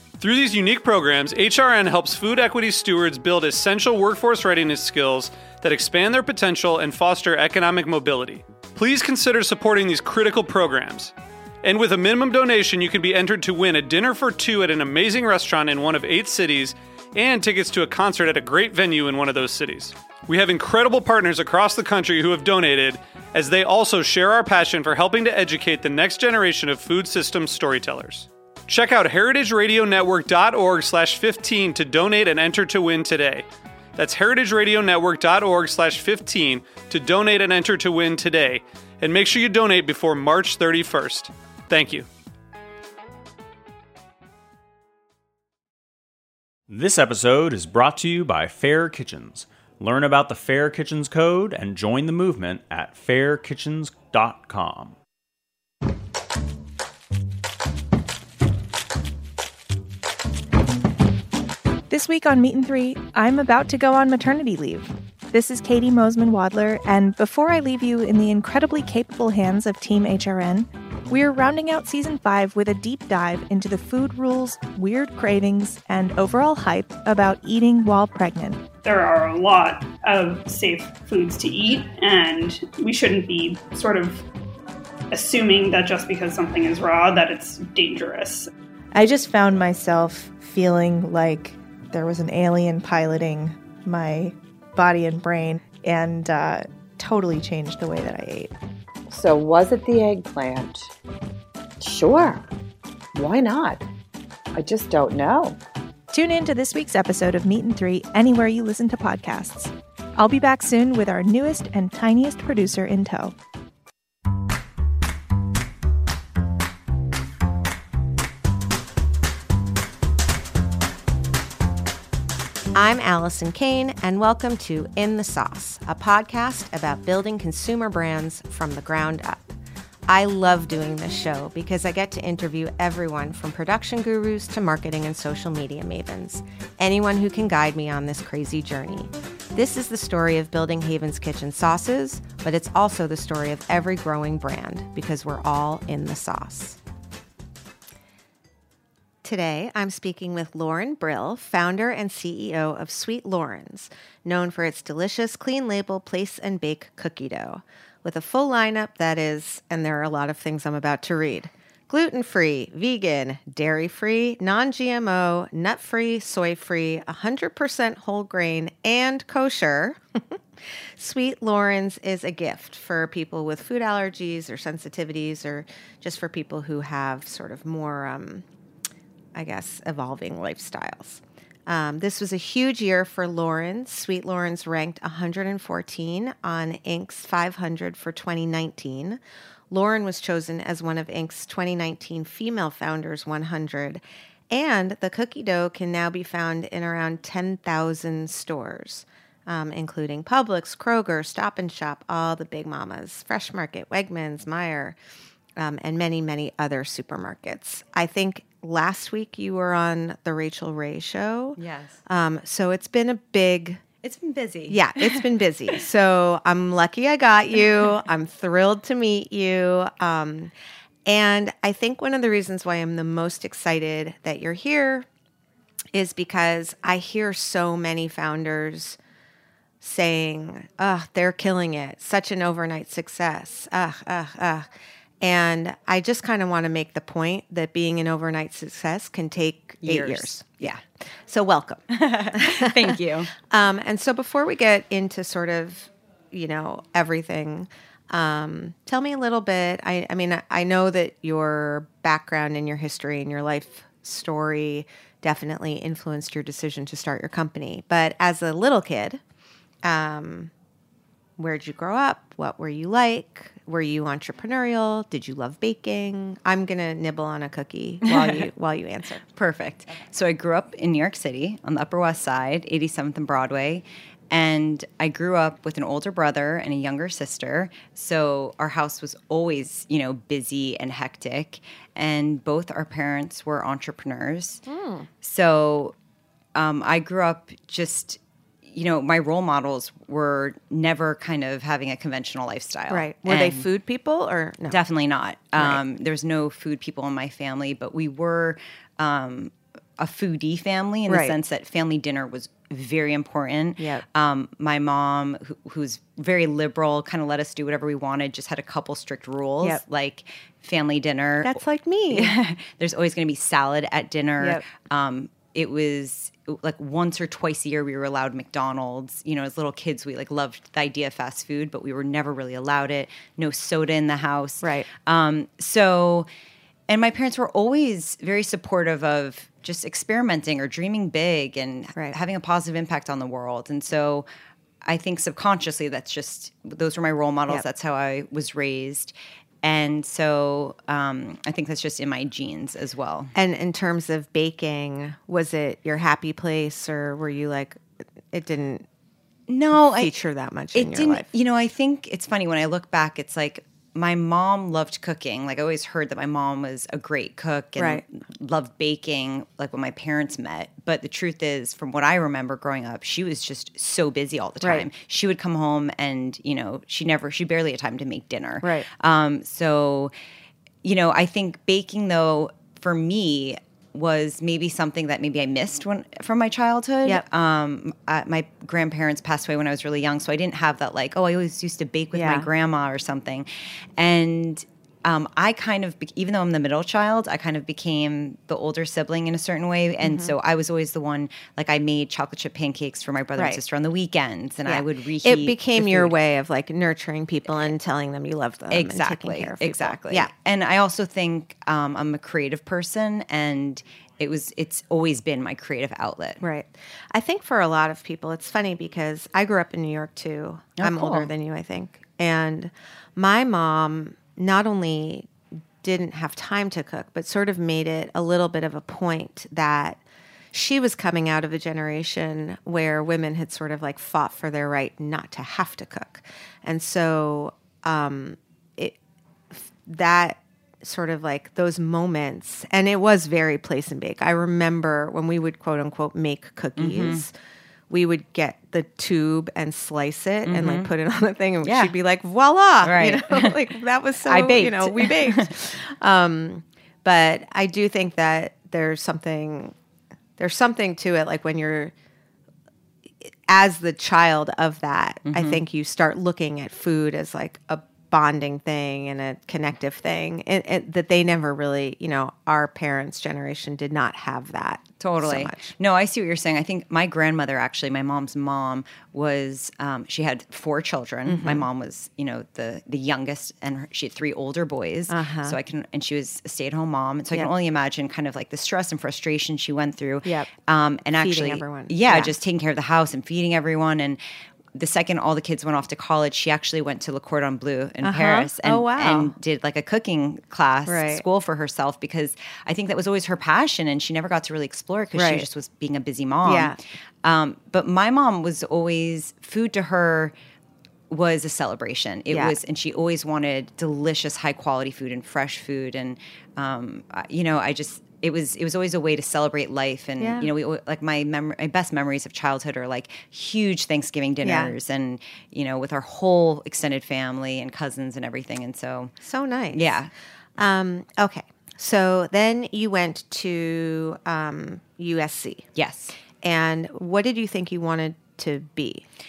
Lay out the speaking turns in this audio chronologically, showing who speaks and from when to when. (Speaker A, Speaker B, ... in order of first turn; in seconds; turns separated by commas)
Speaker A: 0.2-33.4, Speaker A: 34.0-42.1, Speaker B: 46.7-54.9, Speaker C: 61.9-78.6, Speaker D: 78.8-84.2, Speaker D: 85.1-88.5, Speaker C: 88.9-98.5, Speaker E: 99.1-100.9, Speaker E: 101.8-102.4, Speaker E: 103.1-103.8, Speaker E: 104.5-105.6, Speaker C: 106.1-113.3, Speaker F: 122.7-129.4, Speaker F: 130.1-146.8, Speaker F: 149.2-170.4, Speaker F: 171.0-178.4, Speaker F: 179.3-204.9, Speaker F: 205.6-213.8, Speaker G: 211.6-212.0, Speaker G: 214.0-215.2, Speaker F: 214.7-220.5, Speaker F: 221.1-225.1, Speaker F: 225.9-229.0, Speaker F: 229.8-234.7, Speaker F: 235.2-240.7, Speaker G: 239.8-240.8, Speaker F: 241.2-259.2, Speaker G: 241.9-243.3, Speaker F: 259.8-260.5, Speaker F: 261.4-269.2, Speaker G: 268.0-268.5, Speaker G: 269.3-284.6, Speaker F: 284.6-285.1, Speaker G: 285.2-285.9, Speaker G: 286.5-293.7, Speaker F: 292.9-294.8, Speaker G: 294.7-326.3, Speaker F: 295.5-295.8, Speaker F: 301.1-301.4, Speaker F: 303.8-304.0, Speaker F: 311.4-312.4, Speaker F: 314.4-314.6, Speaker F: 324.6-324.9, Speaker G: 326.9-334.2, Speaker G: 334.8-343.3, Speaker F: 343.3-348.9, Speaker G: 349.5-350.1, Speaker F: 349.7-351.3, Speaker G: 350.7-370.1, Speaker F: 357.8-358.0, Speaker F: 364.6-364.9, Speaker F: 368.6-368.9, Speaker G: 370.8-396.1, Speaker F: 382.1-382.5, Speaker F: 390.0-390.3, Speaker F: 394.6-400.3, Speaker G: 398.7-406.4, Speaker F: 406.4-415.3, Speaker G: 410.8-411.3, Speaker F: 415.8-420.0, Speaker F: 420.5-429.0, Speaker F: 429.5-437.3, Speaker G: 436.8-437.2, Speaker F: 437.9-449.7, Speaker G: 440.4-440.9, Speaker G: 441.6-441.9, Speaker G: 442.8-443.6, Speaker G: 444.2-445.5, Speaker F: 450.4-451.9, Speaker F: 453.2-465.7, Speaker G: 455.2-455.6, Speaker G: 465.0-484.2, Speaker F: 471.2-471.6, Speaker F: 475.1-475.6, Speaker F: 480.2-480.5, Speaker F: 481.1-482.3, Speaker G: 484.7-500.3, Speaker F: 488.0-489.3, Speaker F: 490.9-491.2, Speaker F: 495.1-495.4, Speaker F: 496.4-496.8, Speaker G: 501.1-519.1, Speaker F: 502.3-502.6, Speaker F: 510.2-510.5, Speaker F: 514.4-514.7, Speaker F: 519.2-519.9, Speaker G: 519.7-520.1, Speaker F: 520.6-525.7, Speaker G: 525.7-526.1, Speaker F: 526.4-529.0